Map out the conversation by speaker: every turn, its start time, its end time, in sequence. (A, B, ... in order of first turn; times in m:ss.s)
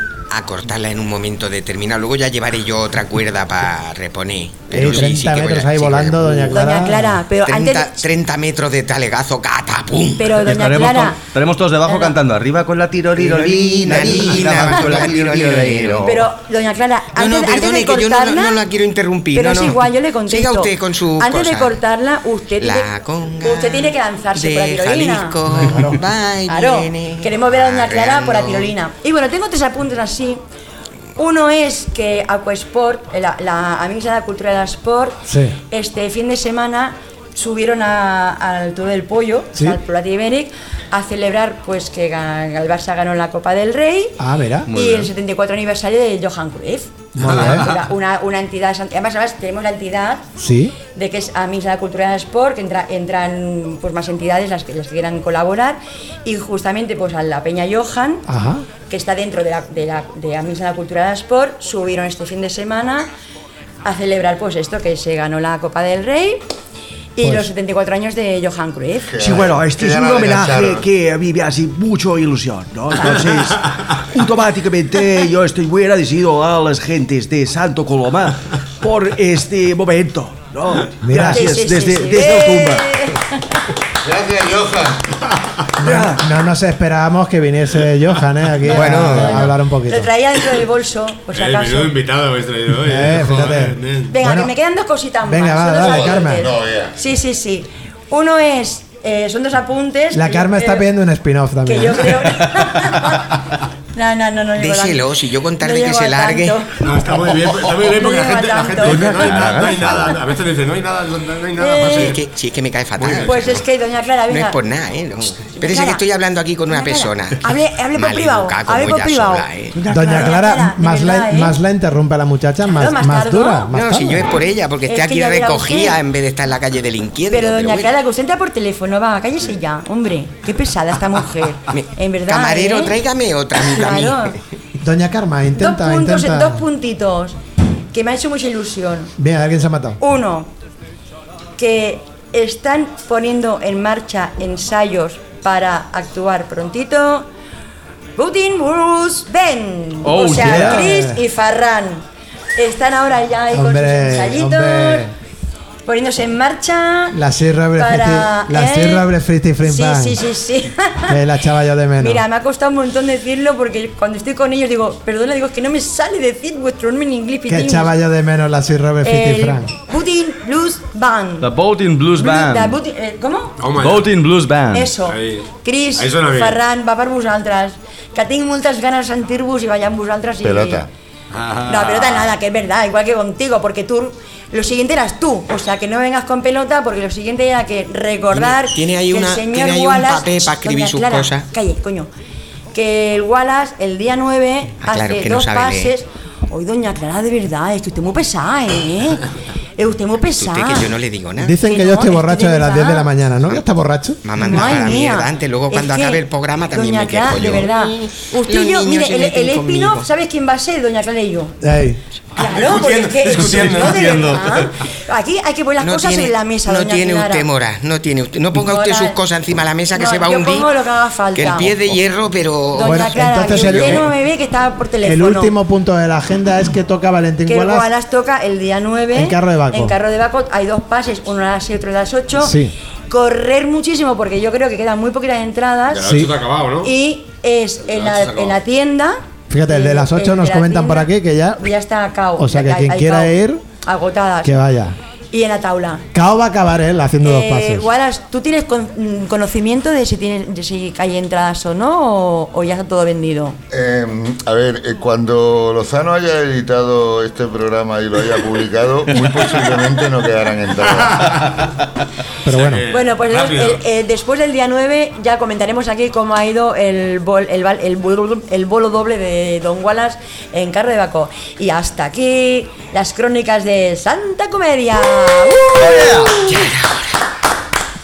0:00.3-0:06.6 A
0:04.7-0:07.2 B
0:06.5-0:08.0 C
0:07.4-0:10.5 A
0:10.2-0:11.2 C
0:10.4-0:16.2 D
0:11.8-0:12.2 C
0:13.1-0:16.2 A
0:16.0-0:18.6 C
0:17.1-0:21.8 A
0:19.3-0:22.9 C
0:22.6-0:28.7 A
0:23.4-0:25.4 C
0:25.5-0:26.0 B
0:26.5-0:30.4 C
0:31.2-0:44.2 C
0:35.2-0:35.6 B
0:44.2-0:44.7 B
0:44.7-0:45.1 D
0:44.7-0:50.3 C
0:47.2-0:47.7 B
0:47.2-0:47.8 E
0:50.4-0:50.8 B
0:50.9-0:58.2 C
0:58.3-0:58.6 B
0:58.9-1:03.1 C
1:03.8-1:06.4 C
1:07.2-1:09.2 C
1:07.2-1:07.4 B
1:09.0-1:10.9 F
1:09.2-1:22.8 G
1:12.8-1:13.0 D
1:14.8-1:18.3 D
1:18.8-1:20.7 D
1:21.0-1:21.5 B
1:21.1-1:23.4 C
1:21.2-1:22.6 D
1:24.0-1:25.1 F
1:25.8-1:30.1 B
1:25.8-1:26.2 G
1:28.7-1:29.5 A
1:28.7-1:32.0 C
1:31.3-1:34.2 E
1:32.8-1:34.5 B
1:34.1-1:40.9 C
1:35.2-1:36.5 B
1:35.8-1:37.0 F
1:40.1-1:42.3 B
1:41.6-1:43.4 C
1:43.9-1:45.0 C
1:44.6-1:46.6 A
1:45.6-1:46.9 C
1:46.8-1:52.2 E
1:47.8-1:49.5 C
1:48.8-1:50.0 D
1:51.6-1:52.2 C
1:51.8-1:53.6 A
1:53.0-1:53.6 E
1:53.1-1:54.6 C
1:54.3-1:59.8 A
1:55.6-1:56.0 C
1:56.7-2:01.6 C
1:59.8-2:00.3 G
1:59.9-2:04.3 B
2:02.6-2:03.7 C
2:03.7-2:07.9 A
2:04.9-2:06.0 C
2:07.3-2:13.0 C
2:11.7-2:14.4 A
2:13.7-2:14.4 C
2:14.8-2:16.6 B
2:15.5-2:17.4 C
2:17.9-2:19.1 C
2:19.2-2:20.0 B
2:20.0-2:20.5 C
2:21.6-2:27.3 C
2:28.2-2:32.0 C
2:30.0-2:30.9 D
2:30.2-2:31.2 B
2:32.6-2:35.1 C
2:33.5-2:35.1 B
2:35.8-2:37.2 C
2:37.1-2:40.2 B
2:37.7-2:39.1 C
2:39.6-2:41.2 C
2:41.1-2:42.2 B
2:42.0-2:47.9 C
2:47.5-2:49.7 B
2:49.0-2:51.5 C
2:51.4-2:52.8 D
2:52.2-2:53.6 C
2:53.6-2:54.1 E
2:53.7-2:54.9 D
2:54.7-3:00.8 C
2:55.0-2:56.6 E
3:00.4-3:00.9 F
3:01.3-3:02.4 E
3:01.6-3:12.1 C
3:08.3-3:11.5 A
3:12.7-3:19.2 C
3:14.8-3:15.9 A
3:19.8-3:20.9 C
3:20.4-3:21.6 A
3:21.4-3:24.4 B
3:21.5-3:23.1 C
3:24.2-3:30.1 A
3:24.4-3:31.6 C
3:31.6-3:32.0 B
3:32.4-3:34.6 E
3:32.4-3:37.5 C
3:33.3-3:34.6 D
3:35.8-3:40.7 A
3:38.6-3:39.2 C
3:39.9-3:41.8 C
3:41.3-3:44.0 A
3:42.7-3:45.5 C
3:42.8-3:44.0 B
3:45.0-3:47.9 B
3:47.4-3:52.6 C
3:49.1-3:49.9 B
3:52.4-3:52.7 B
3:53.1-3:56.2 C
3:55.9-3:56.9 E
3:56.0-3:56.3 B
3:56.8-4:04.5 C
3:57.8-3:58.6 E
3:59.5-4:01.6 B
4:02.4-4:03.6 B
4:04.4-4:05.0 B
4:05.3-4:06.0 C
4:06.1-4:07.8 B
4:07.2-4:13.6 C
4:13.7-4:21.5 F
4:20.9-4:21.6 E
4:22.4-4:22.8 B
4:22.5-4:23.8 E
4:22.9-4:36.6 C
4:35.7-4:37.2 A